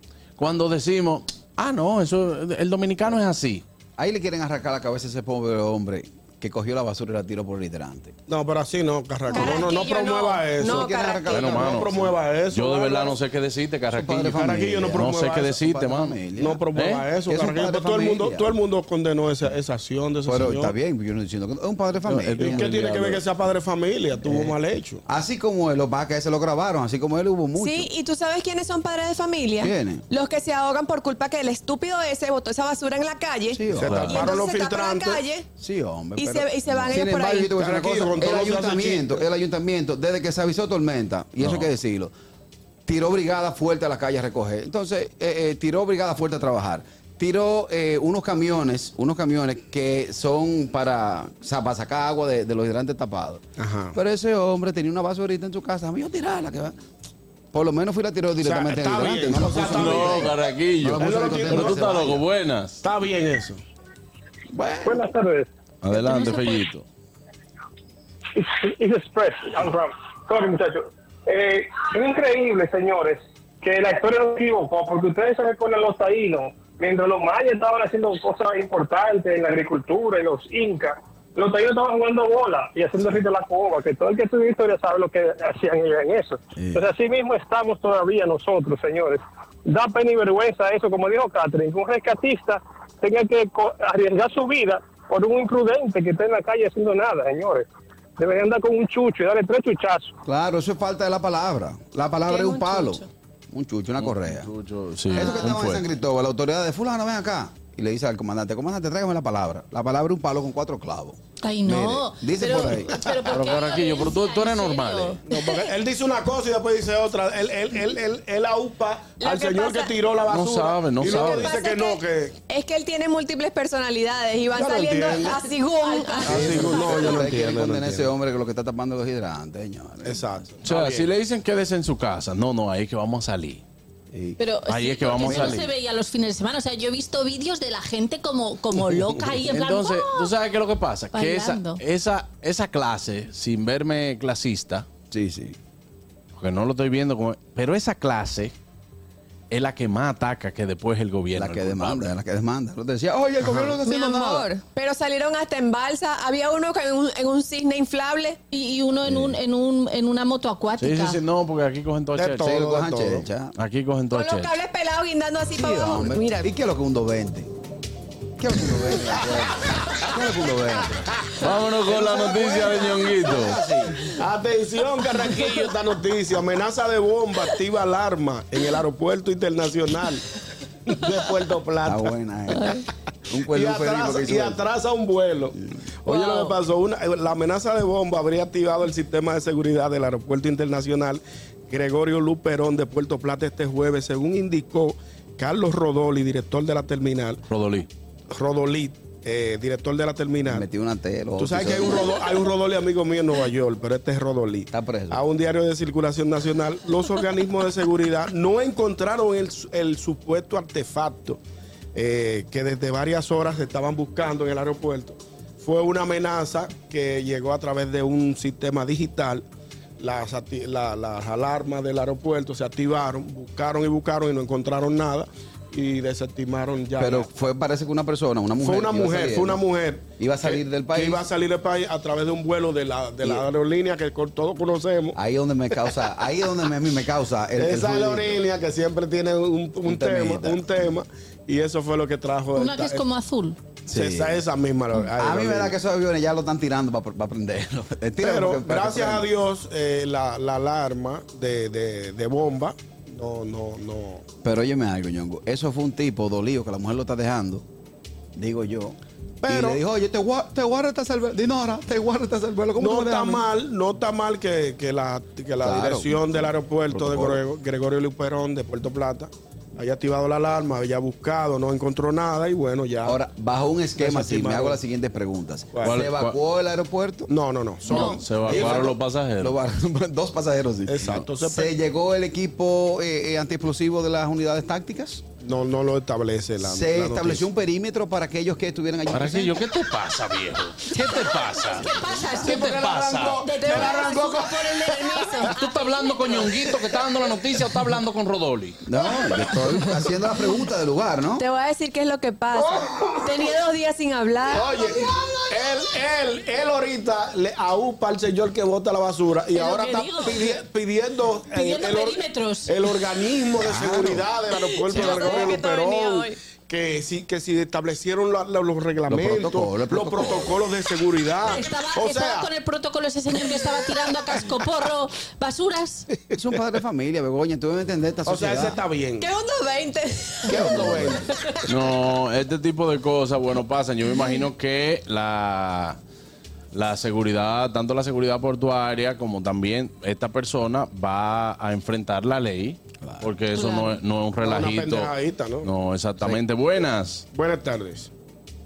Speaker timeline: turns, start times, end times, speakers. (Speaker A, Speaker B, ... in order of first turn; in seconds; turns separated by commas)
Speaker A: 0.4-3.6, Speaker B: 4.0-8.1, Speaker C: 8.3-10.9, Speaker B: 9.3-9.7, Speaker D: 9.3-11.6, Speaker B: 10.6-12.1, Speaker A: 11.3-12.0, Speaker C: 11.6-13.1, Speaker A: 12.5-16.2, Speaker B: 13.9-16.6, Speaker C: 14.3-15.5, Speaker C: 16.4-20.7, Speaker A: 16.7-17.0, Speaker B: 17.3-18.5, Speaker B: 20.2-22.7, Speaker A: 22.0-23.2, Speaker C: 22.4-25.0, Speaker B: 24.2-24.5, Speaker B: 25.1-27.9, Speaker D: 27.6-35.5, Speaker B: 29.6-30.0, Speaker B: 33.5-34.3, Speaker C: 33.7-35.2, Speaker A: 33.8-34.2, Speaker B: 35.6-42.1, Speaker D: 36.2-37.5, Speaker C: 37.5-39.2, Speaker A: 41.4-41.7, Speaker B: 42.9-53.4, Speaker C: 53.6-54.0, Speaker B: 53.9-56.8, Speaker B: 57.5-62.2, Speaker C: 58.4-60.3, Speaker A: 59.4-62.8, Speaker C: 61.0-62.1, Speaker C: 62.8-63.6, Speaker B: 64.5-65.1, Speaker E: 64.8-65.5, Speaker A: 65.8-66.8, Speaker F: 65.9-66.7, Speaker E: 68.3-97.7, Speaker B: 86.5-86.9, Speaker E: 98.2-100.1, Speaker B: 100.2-104.5, Speaker D: 102.3-103.0, Speaker A: 104.0-105.8, Speaker B: 105.1-113.0, Speaker F: 105.2-105.5, Speaker F: 111.4-115.4, Speaker A: 113.2-115.2, Speaker C: 115.2-122.3, Speaker D: 119.2-119.9, Speaker A: 120.3-121.5, Speaker D: 121.0-126.9, Speaker C: 124.5-125.4, Speaker F: 125.4-127.2, Speaker B: 126.2-130.5, Speaker C: 126.3-128.1, Speaker C: 130.0-131.1, Speaker A: 130.6-133.6, Speaker B: 134.1-134.4, Speaker F: 134.4-140.3, Speaker A: 134.7-135.7, Speaker B: 135.2-135.7, Speaker A: 139.4-144.8, Speaker F: 141.1-141.8, Speaker B: 145.1-145.6, Speaker A: 146.4-148.5, Speaker A: 149.5-152.1, Speaker B: 151.3-154.5, Speaker D: 153.8-158.4, Speaker F: 158.5-161.2, Speaker B: 159.0-159.3, Speaker A: 160.8-162.6, Speaker C: 162.2-163.2, Speaker B: 162.4-163.5, Speaker A: 163.6-164.5, Speaker D: 164.1-166.5, Speaker B: 165.5-167.5, Speaker B: 168.4-171.0, Speaker A: 171.4-173.6, Speaker B: 171.8-174.0, Speaker C: 174.1-180.2, Speaker C: 180.9-182.1, Speaker B: 181.8-184.6, Speaker D: 182.5-182.8, Speaker C: 183.5-197.4, Speaker D: 186.1-186.5, Speaker A: 197.5-197.9, Speaker C: 198.3-200.6, Speaker B: 200.5-202.2, Speaker C: 201.4-211.4, Speaker B: 204.7-205.2, Speaker C: 211.9-219.4, Speaker C: 220.0-227.2, Speaker B: 227.0-229.6, Speaker C: 228.6-235.2, Speaker B: 230.2-231.2, Speaker B: 235.1-238.4, Speaker C: 237.6-243.0, Speaker B: 239.8-240.8, Speaker F: 242.5-243.6, Speaker B: 243.9-244.4, Speaker C: 243.9-245.7, Speaker B: 245.1-249.3, Speaker C: 248.2-254.2, Speaker B: 254.4-257.6, Speaker B: 258.4-263.5, Speaker C: 259.4-259.8, Speaker C: 262.8-273.2, Speaker B: 265.6-266.4, Speaker B: 266.9-267.4, Speaker B: 273.0-277.3, Speaker C: 274.0-274.8, Speaker C: 275.7-276.0, Speaker A: 275.8-276.4, Speaker C: 277.3-278.9, Speaker B: 277.9-285.2, Speaker F: 277.9-278.1, Speaker A: 277.9-279.6, Speaker C: 280.9-281.7, Speaker C: 285.4-287.4, Speaker B: 286.6-289.5, Speaker A: 289.1-293.9, Speaker F: 291.6-296.3, Speaker C: 292.5-294.2, Speaker D: 293.6-295.5, Speaker A: 295.5-298.8, Speaker B: 298.8-301.4, Speaker D: 301.4-304.8, Speaker C: 302.5-303.2, Speaker C: 304.5-322.5, Speaker F: 309.5-310.4, Speaker F: 311.5-312.7, Speaker B: 313.6-314.3, Speaker D: 314.9-316.4, Speaker F: 314.9-315.3, Speaker B: 315.1-315.5, Speaker B: 319.1-320.5, Speaker F: 321.4-326.1, Speaker B: 326.3-328.8, Speaker C: 328.2-329.3, Speaker D: 329.2-330.8, Speaker C: 330.5-331.2, Speaker B: 330.5-331.3, Speaker A: 331.7-336.0, Speaker A: 336.7-345.1, Speaker B: 343.0-343.3, Speaker F: 343.5-343.9, Speaker C: 344.4-345.7, Speaker A: 345.6-347.2, Speaker C: 347.3-348.1